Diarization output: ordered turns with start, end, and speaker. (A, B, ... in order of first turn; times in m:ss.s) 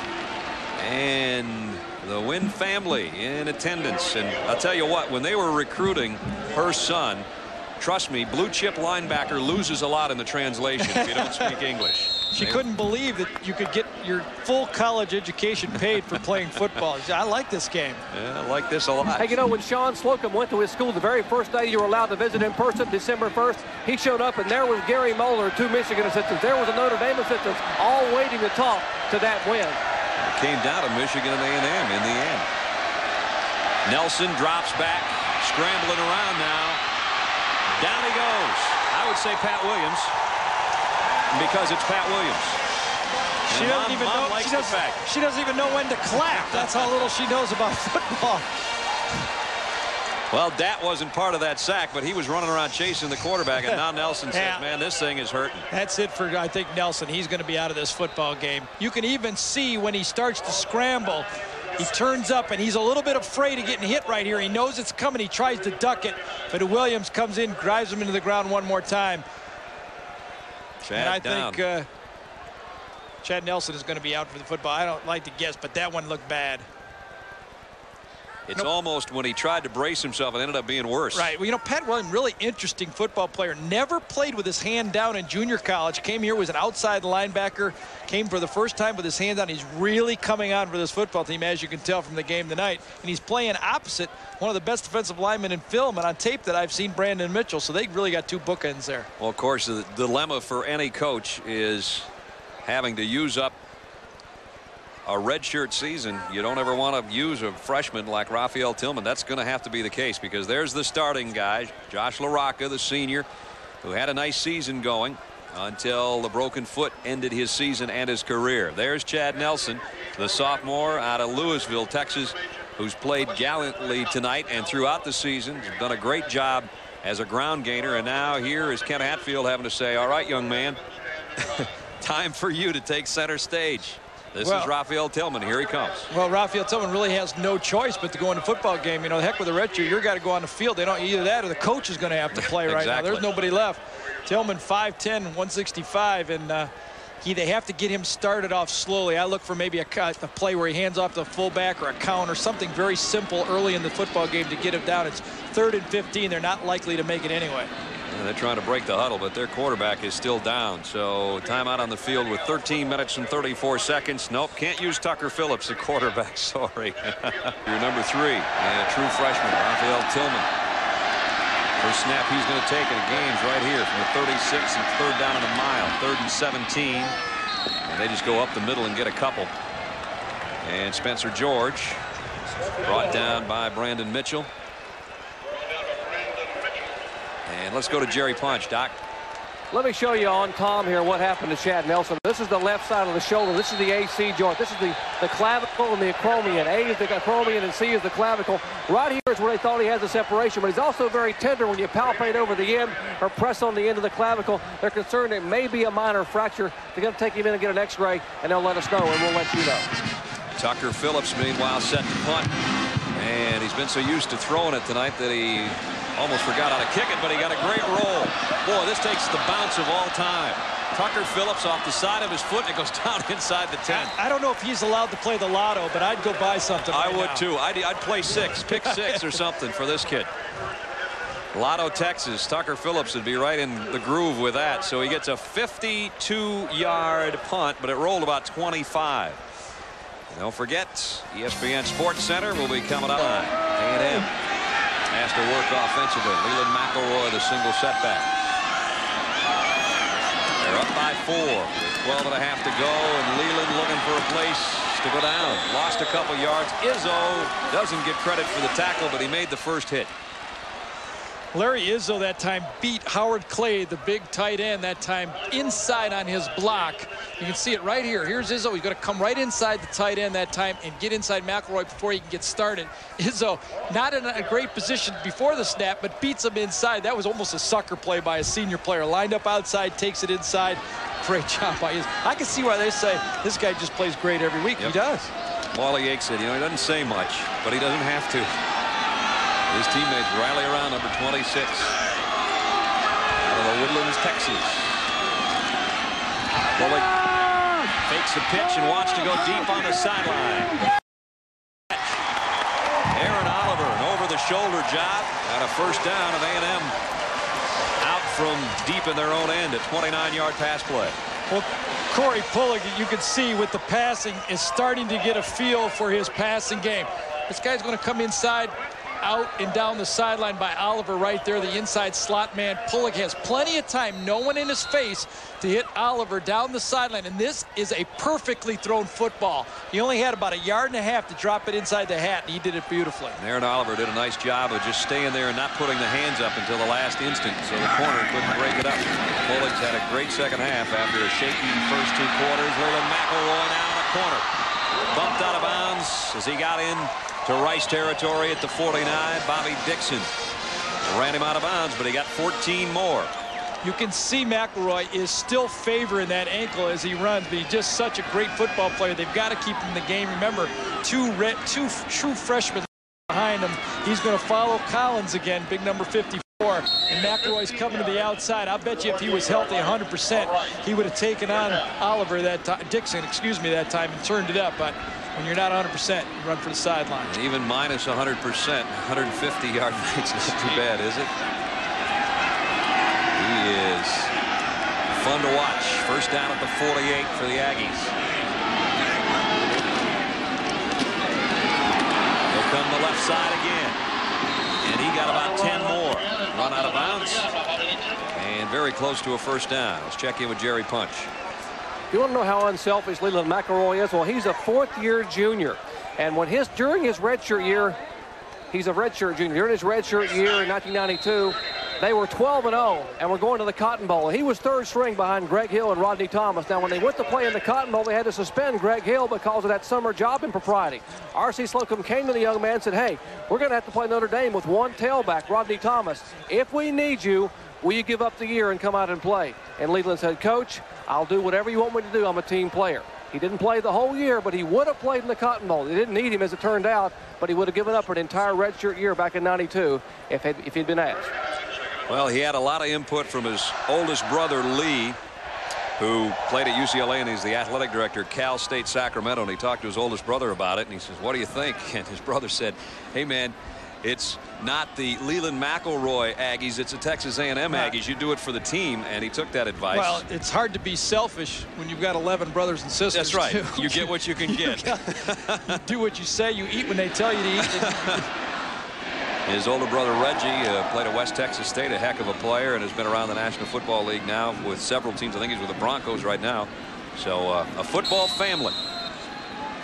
0:00.8-0:07.3 A
0:07.8-0:12.6 A
0:10.8-0:11.5 B
0:12.3-0:18.0 B
0:18.1-0:19.3 A
0:19.2-0:29.8 C
0:30.2-0:32.5 A
0:33.8-0:36.8 A
0:37.8-0:40.2 A
0:41.3-0:42.6 A
0:43.5-0:45.0 A
0:43.5-0:48.5 B
0:50.3-0:55.7 A
0:54.3-0:54.6 B
0:55.7-1:09.2 B
1:10.8-1:11.6 A
1:10.9-1:11.9 B
1:13.2-1:16.7 B
1:18.5-1:21.3 A
1:21.1-1:39.1 B
1:39.2-1:42.1 A
1:42.6-1:43.6 A
1:45.0-1:53.3 A
1:53.8-2:10.8 A
2:11.4-2:16.1 A
2:14.4-2:14.7 B
2:16.1-2:26.7 B
2:22.3-2:23.3 A
2:27.2-2:37.7 B
2:38.1-2:50.5 A
2:51.8-2:57.2 A
2:57.8-2:59.5 A
3:00.6-3:02.0 A
3:02.8-3:04.5 A
3:07.5-3:09.0 A
3:09.7-3:30.0 C
3:30.6-3:32.6 A
3:33.2-3:44.1 A
3:43.9-3:47.5 B
3:46.9-3:50.3 A
3:48.7-3:49.4 B
3:51.5-3:59.4 A
4:00.3-4:04.3 A
4:05.1-4:08.3 A
4:10.6-4:20.1 A
4:21.5-4:45.3 B
4:45.7-4:48.6 A
4:49.7-4:52.0 A
4:53.4-4:55.1 A
4:56.8-4:57.2 A
4:58.0-5:00.8 A
5:03.1-5:07.0 A
5:08.0-5:11.2 A
5:11.5-5:33.4 B
5:33.4-5:44.5 A
5:45.1-5:50.3 A
5:51.0-5:53.3 A
5:53.8-6:17.3 B
6:17.3-6:21.3 A
6:23.3-6:24.3 A
6:25.1-6:28.1 A
6:32.5-6:34.0 A
6:34.8-6:37.5 A
6:38.3-6:41.3 A
6:42.1-6:48.0 C
6:48.7-7:21.3 C
7:22.1-7:25.2 A
7:26.0-7:40.2 A
7:39.9-7:48.3 B
7:43.1-7:45.8 A
7:47.6-7:48.2 A
7:49.5-7:58.8 A